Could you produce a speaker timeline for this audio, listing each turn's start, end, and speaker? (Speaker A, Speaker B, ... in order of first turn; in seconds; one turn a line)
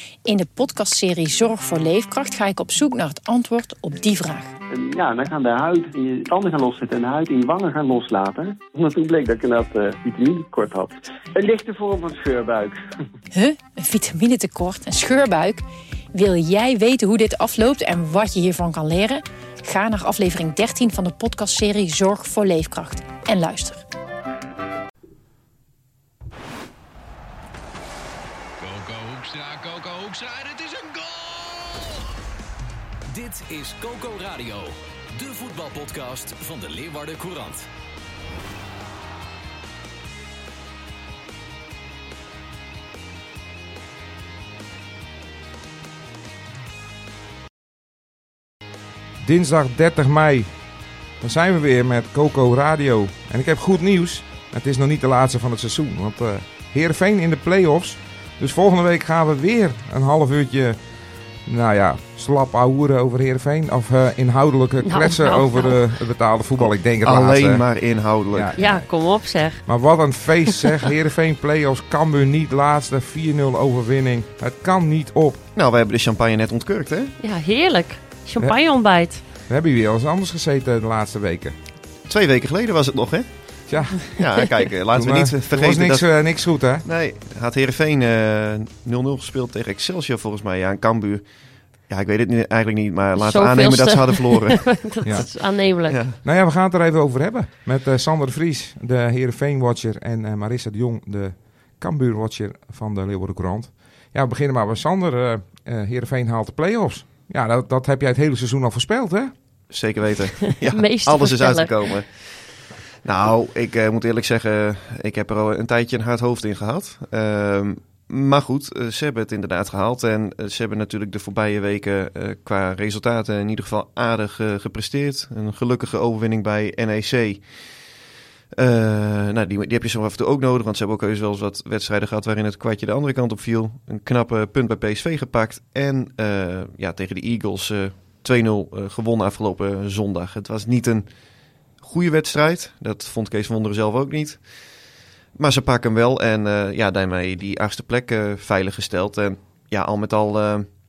Speaker A: 0.2-4.5
Speaker B: 4.7-12.8
Speaker A: 13.3-23.8
Speaker C: 28.6-32.0
Speaker C: 33.1-37.7
Speaker D: 49.2-75.4
Speaker E: 64.8-65.8
Speaker F: 66.6-68.7
Speaker E: 68.6-69.7
Speaker F: 75.5-77.1
Speaker E: 77.2-79.2
Speaker D: 78.4-81.6
Speaker F: 82.0-91.3
Speaker D: 83.7-86.8
Speaker F: 91.9-95.3
Speaker E: 93.2-96.0
Speaker F: 95.9-96.2
Speaker D: 96.2-109.3
Speaker F: 109.7-127.5
Speaker E: 110.6-111.8
Speaker F: 128.5-141.1
Speaker F: 141.8-144.5
Speaker F: 145.3-150.7